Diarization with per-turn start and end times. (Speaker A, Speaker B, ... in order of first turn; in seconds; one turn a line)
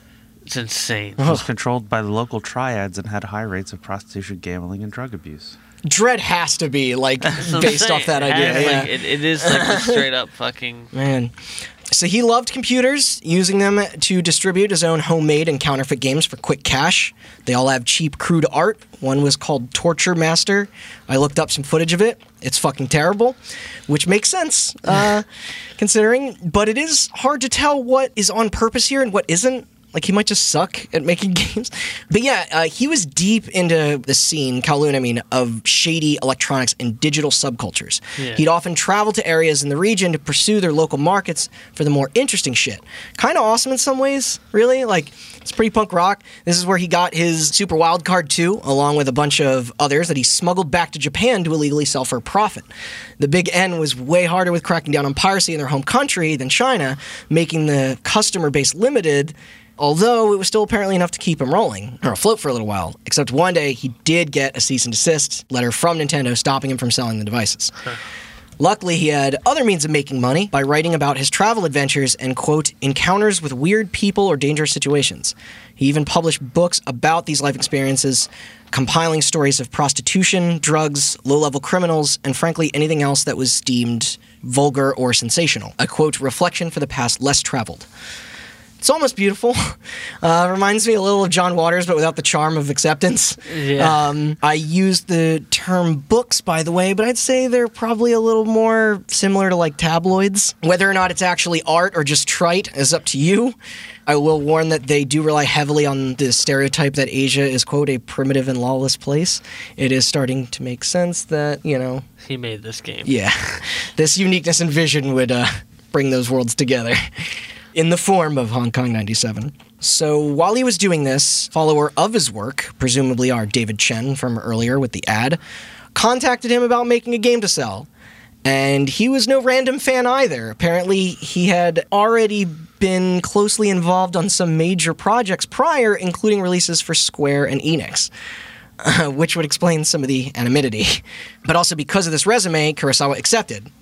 Speaker A: 0.5-1.3
Speaker B: 1.2-1.5
Speaker C: 1.2-5.6
Speaker B: 5.9-10.1
Speaker A: 7.4-10.9
Speaker C: 8.3-8.8
Speaker B: 10.9-11.3
Speaker B: 11.9-25.3
Speaker B: 25.8-52.7
Speaker A: 38.2-38.4
Speaker B: 53.2-67.7
Speaker B: 68.6-87.9
Speaker B: 88.8-112.0
Speaker A: 93.5-94.0
Speaker A: 112.2-113.1
Speaker B: 113.0-125.4
Speaker B: 125.9-127.9
Speaker B: 128.4-138.1
Speaker B: 138.8-143.7